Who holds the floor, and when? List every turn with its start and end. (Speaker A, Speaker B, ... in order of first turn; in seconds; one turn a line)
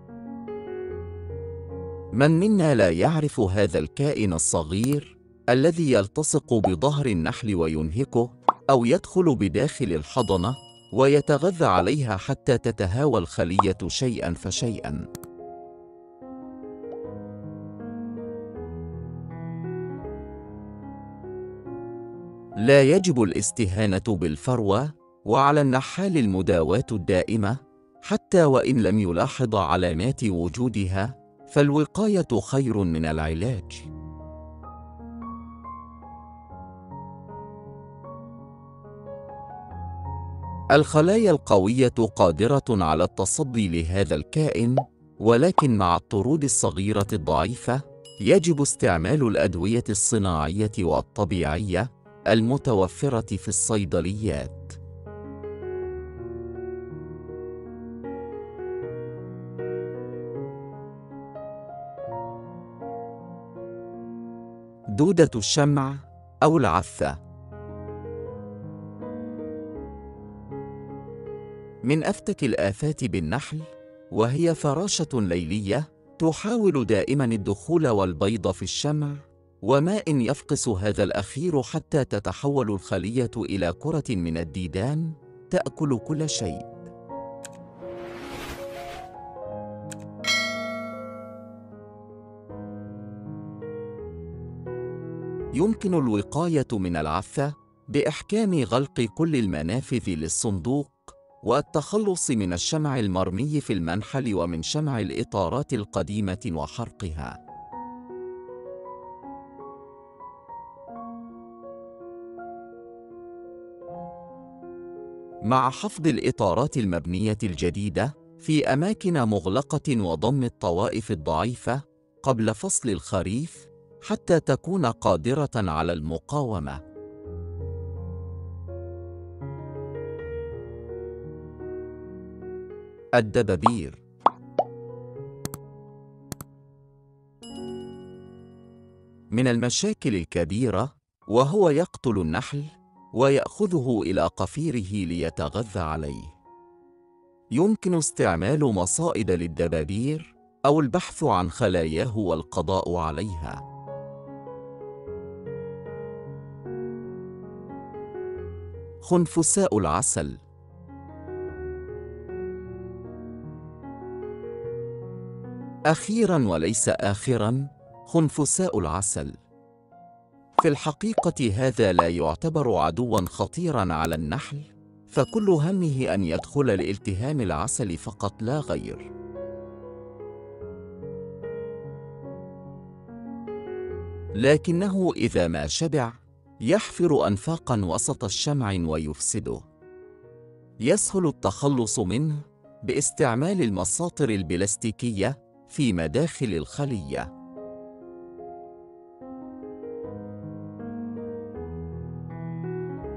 Speaker A: 2.1-15.1
Speaker A: 22.6-33.9
Speaker A: 40.7-54.8
Speaker A: 64.9-67.2
Speaker A: 71.8-86.8
Speaker A: 95.5-107.4
Speaker A: 115.4-126.8
Speaker A: 133.2-134.0
Speaker A: 139.3-146.3
Speaker A: 147.6-153.6
Speaker A: 159.0-160.4
Speaker A: 165.9-169.4
Speaker A: 170.6-179.1
Speaker A: 184.3-189.7
Speaker A: 190.8-197.3